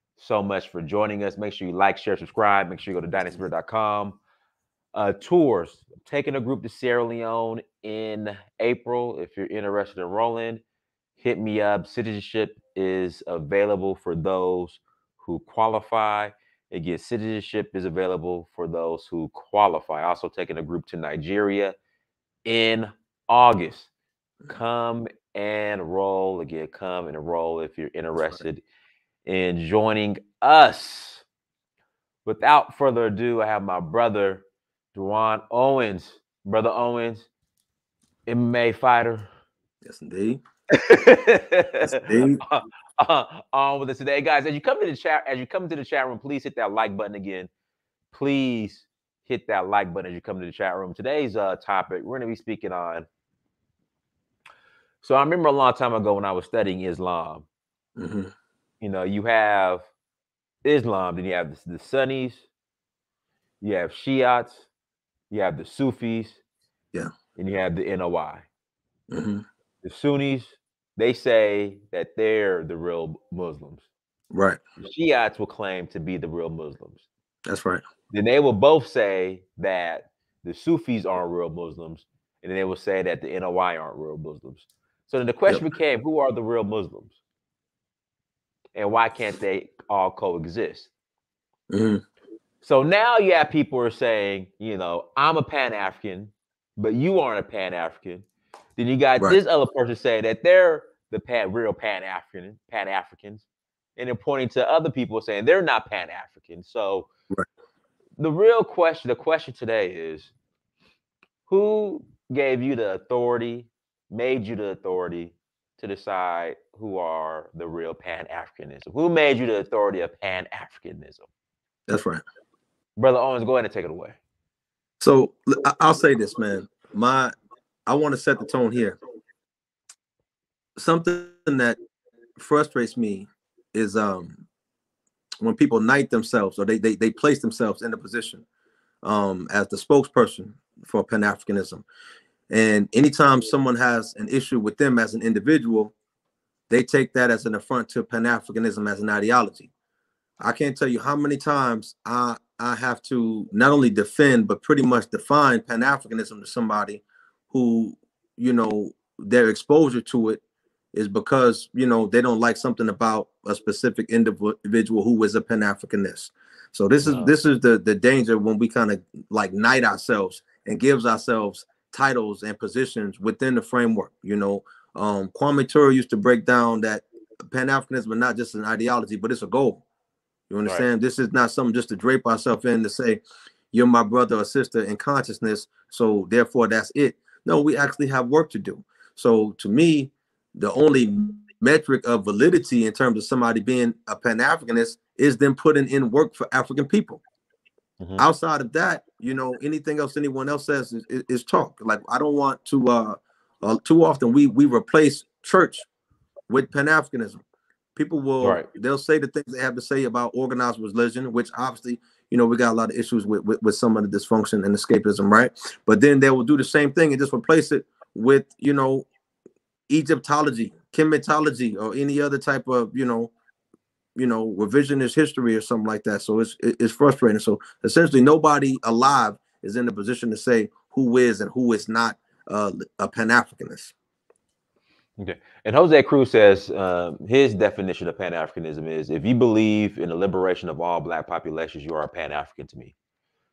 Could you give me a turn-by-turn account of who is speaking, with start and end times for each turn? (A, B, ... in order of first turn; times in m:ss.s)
0:00.2-0:04.2 A
0:05.0-0:10.6 A
0:11.2-0:21.8 A
0:22.4-0:23.9 A
0:24.5-0:28.6 A
0:29.2-0:31.2 A
0:32.2-0:34.4 A
0:34.9-0:37.3 A
0:38.3-0:39.3 A
0:39.8-0:40.4 B
0:40.7-0:47.5 A
0:41.8-0:42.4 B
0:48.1-0:53.1 A
0:55.0-0:57.5 A
0:58.0-0:58.3 B
0:58.8-0:59.9 A
1:00.6-1:02.4 A
1:03.6-1:04.7 A
1:05.3-1:06.4 A
1:07.4-1:08.5 A
1:09.1-1:09.4 B
1:09.8-1:13.8 A
1:14.3-1:14.6 B
1:14.8-1:17.0 A
1:17.5-1:17.8 B
1:18.1-1:27.2 A
1:28.8-1:30.9 A
1:31.7-1:32.0 B
1:32.6-1:43.4 A
1:44.0-1:47.1 A
1:48.2-1:50.3 A
1:51.5-2:01.3 A
2:01.9-2:02.2 B
2:03.0-2:04.2 A
2:05.0-2:07.3 B
2:07.9-2:09.0 B
2:10.8-2:11.8 B
2:12.4-2:14.4 B
2:15.4-2:18.4 B
2:19.0-2:21.8 B
2:22.5-2:25.9 B
2:26.7-2:29.7 B
2:30.4-2:40.4 B
2:40.9-2:59.8 B
2:47.0-2:47.3 A
3:00.5-3:17.2 B
3:18.0-3:18.2 A
3:18.2-3:25.9 B
3:26.5-3:27.4 B
3:28.0-3:39.1 B
3:28.4-3:28.7 A
3:39.9-3:43.3 B
3:44.2-3:53.9 B
3:55.2-4:02.9 A